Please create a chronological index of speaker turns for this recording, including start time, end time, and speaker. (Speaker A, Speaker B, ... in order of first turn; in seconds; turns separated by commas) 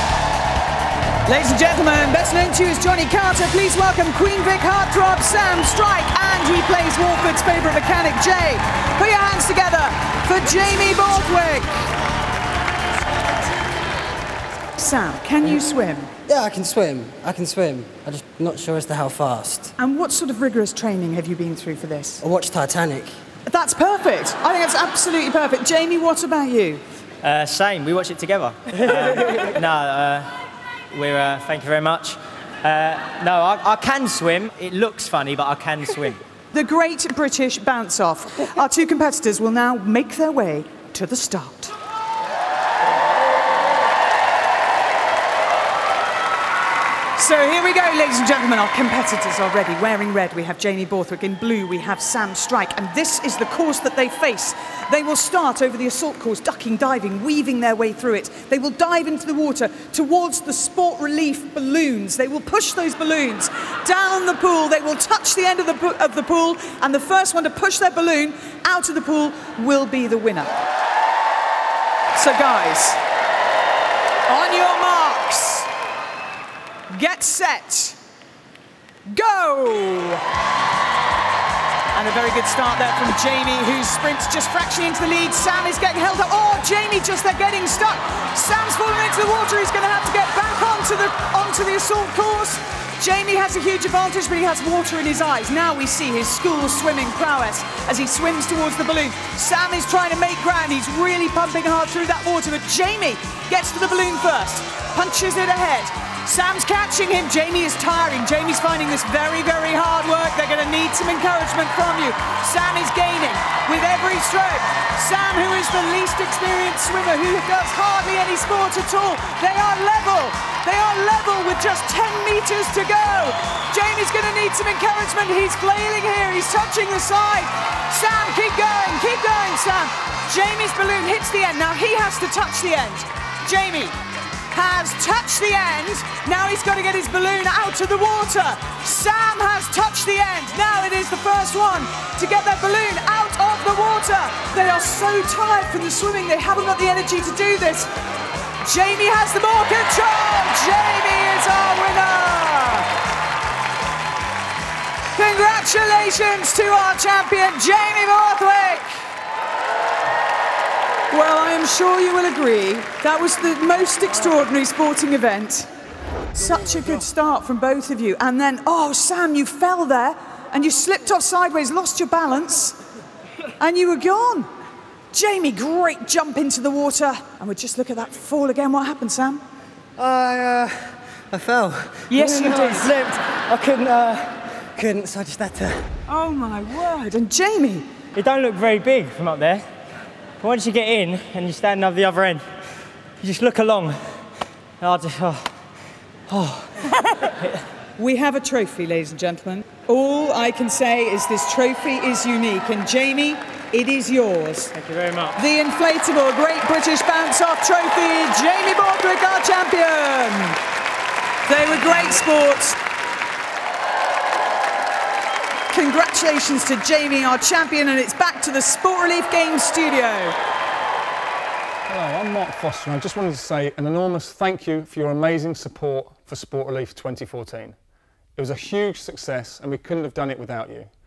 Speaker A: 1.3-11.8, Speaker A: 14.8-16.1, Speaker B: 16.3-19.8, Speaker A: 19.8-22.2, Speaker B: 22.2-23.1, Speaker A: 23.5-26.8, Speaker C: 27.2-30.3, Speaker C: 30.9-36.2, Speaker A: 36.5-41.8, Speaker A: 47.2-70.6, Speaker A: 72.2-73.0, Speaker A: 74.3-75.7, Speaker A: 76.9-78.0, Speaker A: 79.1-80.3, Speaker A: 81.9-133.9, Speaker A: 134.5-147.9, Speaker A: 148.6-152.9, Speaker A: 155.2-159.1, Speaker A: 161.1-165.7, Speaker A: 166.3-172.8, Speaker A: 173.6-174.5, Speaker A: 175.1-179.4, Speaker B: 180.0-182.7, Speaker A: 182.1-182.9, Speaker C: 182.3-184.5, Speaker B: 183.7-183.9, Speaker B: 184.6-185.9, Speaker A: 186.1-187.9, Speaker C: 188.2-189.7, Speaker C: 190.4-192.4, Speaker C: 193.2-194.3, Speaker C: 194.8-195.5, Speaker C: 196.3-197.6, Speaker A: 198.0-204.7, Speaker C: 204.7-205.4, Speaker A: 205.4-210.6, Speaker A: 211.5-212.8, Speaker A: 215.7-220.3, Speaker D: 221.9-227.8, Speaker D: 228.4-230.9